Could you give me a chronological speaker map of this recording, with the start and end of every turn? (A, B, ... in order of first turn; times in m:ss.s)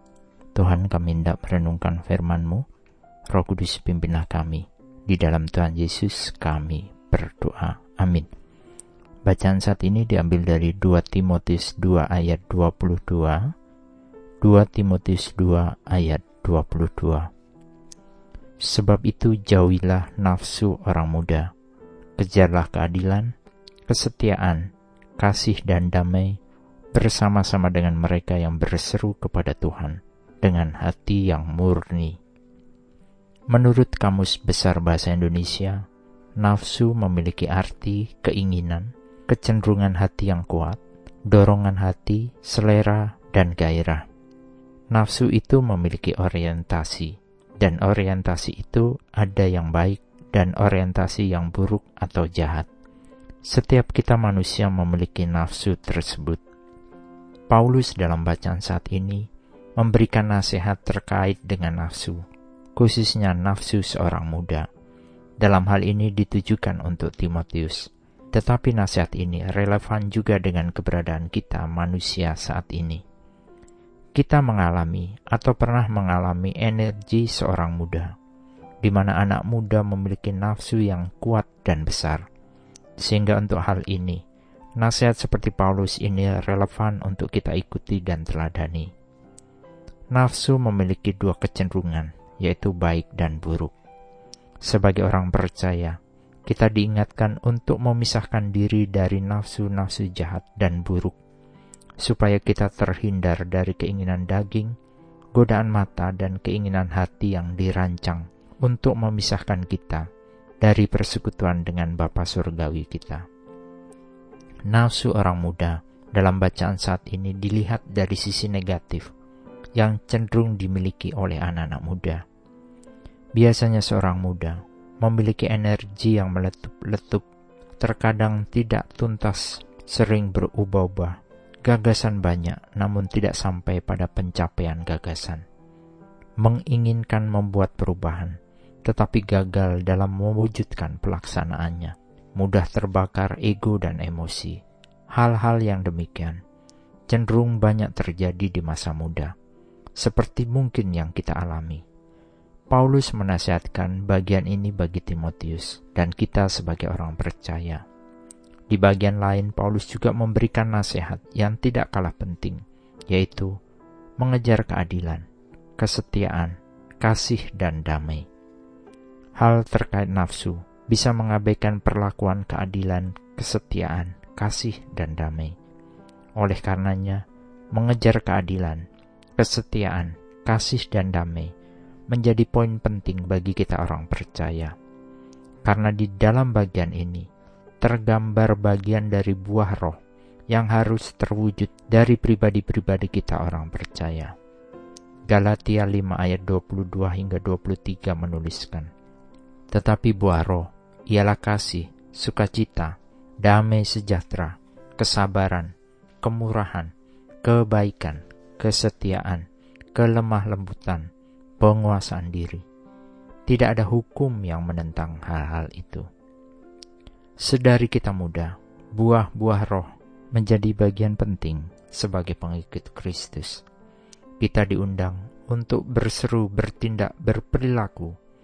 0:00.6-0:02.6 A
0:03.3-0:08.3 A
0:09.3-0:13.5 A
0:14.4-0:17.3 A
0:18.6-0:21.5 A
0:22.2-0:23.3 A
0:23.9-0:24.7 A
0:25.2-0:26.4 A
0:26.9-0:32.2 A
0:33.5-0:35.8 A
0:36.4-0:44.1 A
0:44.9-0:52.7 A
0:53.4-0:56.4 A
0:57.5-0:59.3 A
0:59.8-1:04.7 A
1:05.4-1:13.0 A
1:14.2-1:18.1 A
1:18.8-1:22.2 A
1:23.0-1:24.2 A
1:24.8-1:28.9 A
1:30.1-1:33.7 A
1:34.6-1:36.0 A
1:36.5-1:41.2 A
1:42.0-1:44.7 A
1:45.4-1:50.1 A
1:50.6-1:53.3 A
1:54.7-1:59.1 A
1:59.8-2:02.2 A
2:03.4-2:07.3 A
2:07.8-2:15.4 A
2:16.4-2:24.6 A
2:25.1-2:26.4 A
2:27.1-2:29.3 A
2:30.0-2:31.8 A
2:32.7-2:37.8 A
2:38.7-2:43.5 A
2:44.2-2:45.2 A
2:45.8-2:48.3 A
2:49.4-2:55.5 A
2:56.4-2:58.8 A
2:59.4-3:01.5 A
3:02.1-3:04.7 A
3:05.6-3:07.3 A
3:07.8-3:10.0 A
3:10.5-3:14.3 A
3:15.3-3:18.9 A
3:19.7-3:26.9 A
3:27.4-3:31.1 A
3:31.6-3:32.6 A
3:33.5-3:36.1 A
3:37.4-3:43.6 A
3:44.4-3:48.2 A